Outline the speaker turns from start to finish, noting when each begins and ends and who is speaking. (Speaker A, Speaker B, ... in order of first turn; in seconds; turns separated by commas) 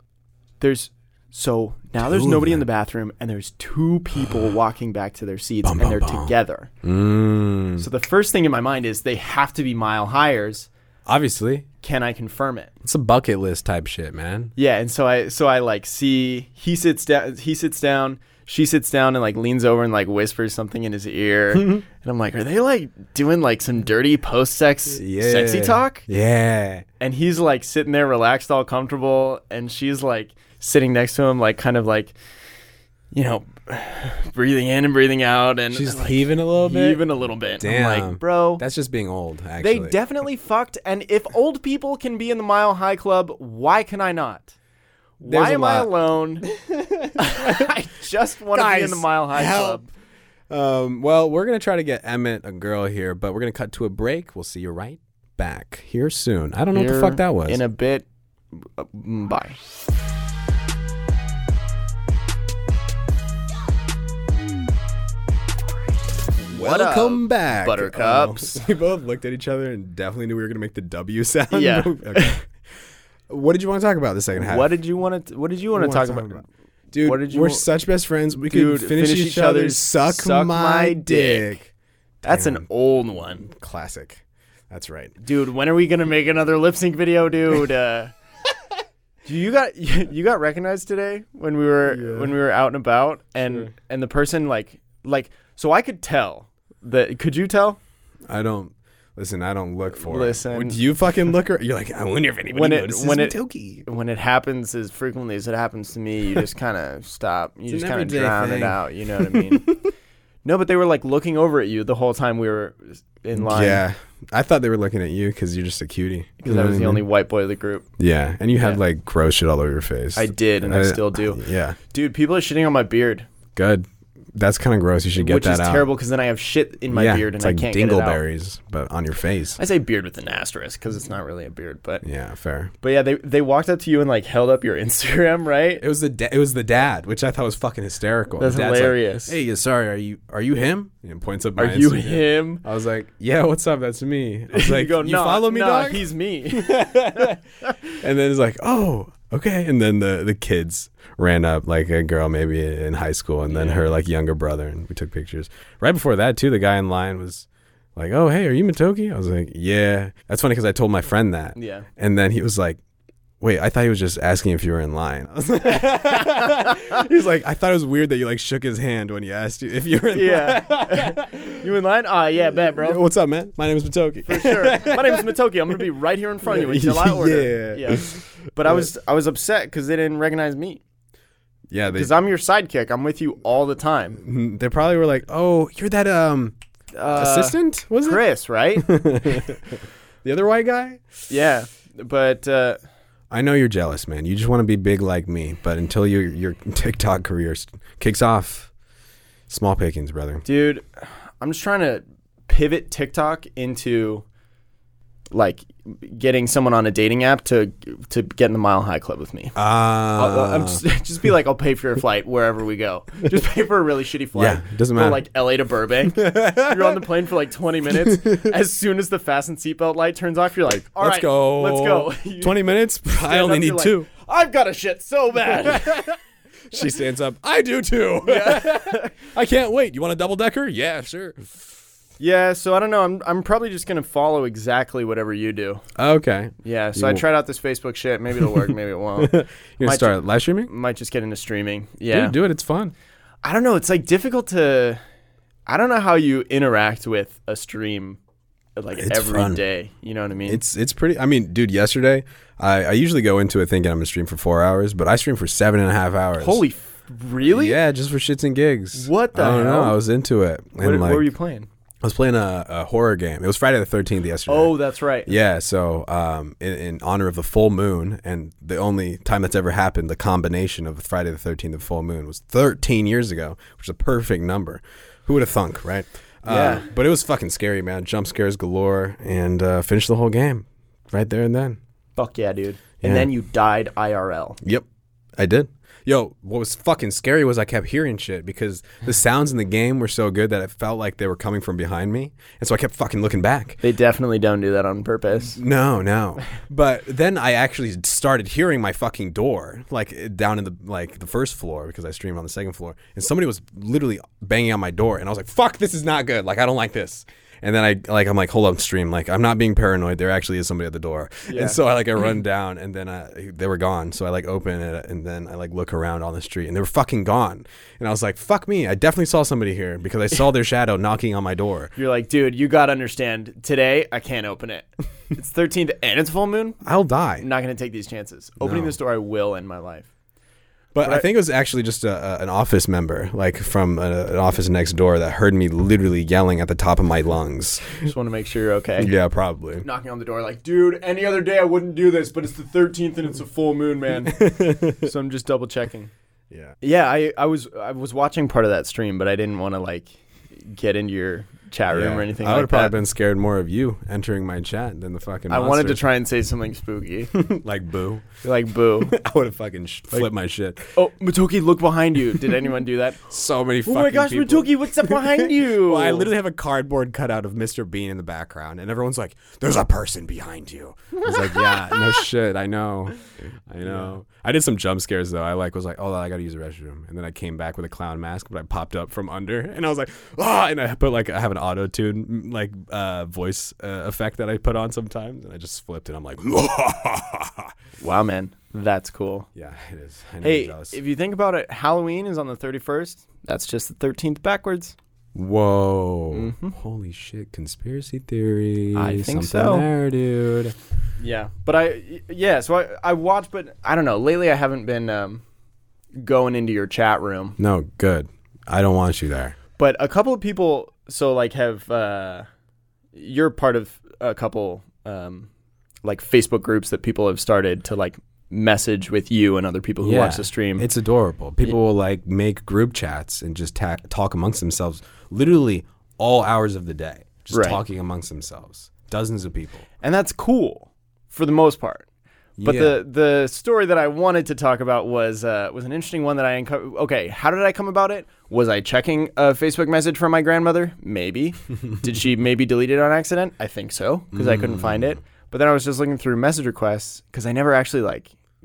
Speaker A: 0.6-6.7, Speaker B: 2.0-2.6, Speaker B: 4.2-4.5, Speaker B: 5.6-7.9, Speaker A: 7.8-10.7, Speaker B: 11.1-11.7, Speaker A: 11.8-12.7, Speaker B: 12.8-14.5, Speaker A: 14.6-26.1, Speaker B: 21.5-21.8, Speaker B: 24.9-26.9, Speaker A: 27.0-32.1, Speaker A: 33.1-38.6, Speaker B: 35.7-37.1, Speaker B: 37.6-40.0, Speaker A: 39.6-44.5, Speaker A: 45.2-46.5, Speaker B: 45.2-45.9, Speaker B: 46.4-47.7, Speaker A: 47.2-49.9, Speaker B: 48.5-49.8, Speaker B: 50.5-57.6, Speaker A: 56.7-59.6, Speaker A: 66.4-68.6, Speaker B: 66.5-72.5, Speaker A: 71.5-72.4, Speaker B: 73.3-74.7, Speaker A: 74.3-76.4, Speaker B: 75.7-81.7, Speaker A: 77.0-77.7, Speaker A: 78.5-81.6, Speaker A: 82.2-83.5, Speaker B: 82.2-82.6, Speaker B: 83.4-85.2, Speaker A: 85.2-88.1, Speaker A: 89.2-97.8, Speaker B: 91.9-92.3, Speaker B: 93.4-93.7, Speaker B: 98.3-103.8, Speaker A: 100.0-100.8, Speaker A: 102.5-109.7, Speaker B: 107.7-109.9, Speaker A: 110.4-113.8, Speaker B: 113.4-117.0, Speaker A: 116.4-117.9, Speaker B: 118.0-121.8, Speaker A: 120.2-123.3, Speaker B: 123.6-125.9, Speaker A: 125.1-128.2, Speaker B: 126.9-129.6, Speaker A: 129.6-132.0, Speaker B: 132.0-132.7, Speaker A: 132.8-135.8, Speaker B: 135.8-147.4, Speaker A: 138.4-139.4, Speaker A: 141.6-142.6, Speaker A: 144.5-147.8, Speaker B: 147.9-162.8, Speaker A: 153.5-153.9, Speaker A: 161.6-161.9, Speaker B: 163.4-171.7, Speaker A: 166.2-166.8, Speaker A: 170.1-173.0, Speaker B: 172.6-175.3, Speaker A: 174.2-180.8, Speaker B: 176.4-178.9, Speaker B: 181.7-182.1, Speaker A: 181.9-184.2, Speaker B: 184.2-186.5, Speaker A: 186.9-188.9, Speaker B: 187.1-188.2, Speaker B: 188.8-191.2, Speaker A: 191.3-192.8, Speaker B: 193.3-198.7, Speaker B: 199.5-200.4, Speaker A: 200.4-204.2, Speaker A: 205.3-209.6, Speaker B: 209.6-210.8, Speaker A: 210.1-222.6, Speaker B: 214.4-215.2, Speaker B: 216.1-217.0, Speaker B: 218.0-218.5, Speaker B: 220.7-224.1, Speaker A: 223.2-226.1, Speaker B: 225.6-226.1, Speaker B: 226.7-231.6, Speaker A: 228.2-229.2, Speaker A: 232.2-235.8, Speaker B: 235.9-237.2, Speaker A: 236.6-242.4, Speaker B: 238.4-240.7, Speaker B: 242.1-242.9, Speaker A: 243.4-245.0, Speaker A: 245.7-248.2, Speaker A: 248.8-250.6, Speaker B: 249.0-249.6, Speaker B: 250.5-256.6, Speaker A: 256.4-257.8, Speaker B: 257.5-261.3, Speaker A: 258.9-260.0, Speaker A: 260.8-261.7, Speaker B: 262.0-264.7, Speaker A: 264.5-265.3, Speaker B: 265.3-281.8, Speaker A: 276.4-276.9, Speaker A: 282.1-284.6, Speaker B: 283.0-283.3, Speaker B: 285.4-293.8, Speaker A: 293.8-295.6, Speaker B: 295.4-321.9, Speaker A: 311.5-311.8, Speaker A: 321.9-326.8, Speaker B: 326.8-327.4, Speaker A: 327.4-330.1, Speaker B: 328.6-328.9, Speaker B: 330.9-338.1, Speaker A: 337.9-339.1, Speaker B: 339.0-339.9, Speaker A: 339.8-346.1, Speaker B: 344.2-345.1, Speaker B: 346.5-346.8, Speaker A: 346.8-352.9, Speaker B: 351.9-356.0, Speaker A: 355.5-357.3, Speaker B: 357.3-358.2, Speaker A: 358.4-359.1, Speaker B: 359.0-360.9, Speaker A: 360.9-363.2, Speaker B: 363.3-387.7, Speaker A: 363.9-366.3, Speaker A: 371.1-372.2, Speaker A: 373.8-374.1, Speaker A: 388.0-389.5, Speaker B: 389.5-391.0, Speaker A: 390.4-394.9, Speaker B: 395.4-400.8, Speaker A: 396.3-396.8, Speaker A: 398.9-399.9, Speaker A: 401.2-405.4, Speaker A: 406.2-407.6, Speaker B: 407.6-409.6, Speaker A: 409.8-412.5, Speaker A: 413.1-415.5, Speaker A: 416.0-420.9, Speaker B: 420.0-429.9, Speaker A: 427.5-427.8, Speaker A: 430.0-432.1, Speaker B: 432.6-433.0, Speaker A: 432.6-448.3, Speaker B: 444.3-445.2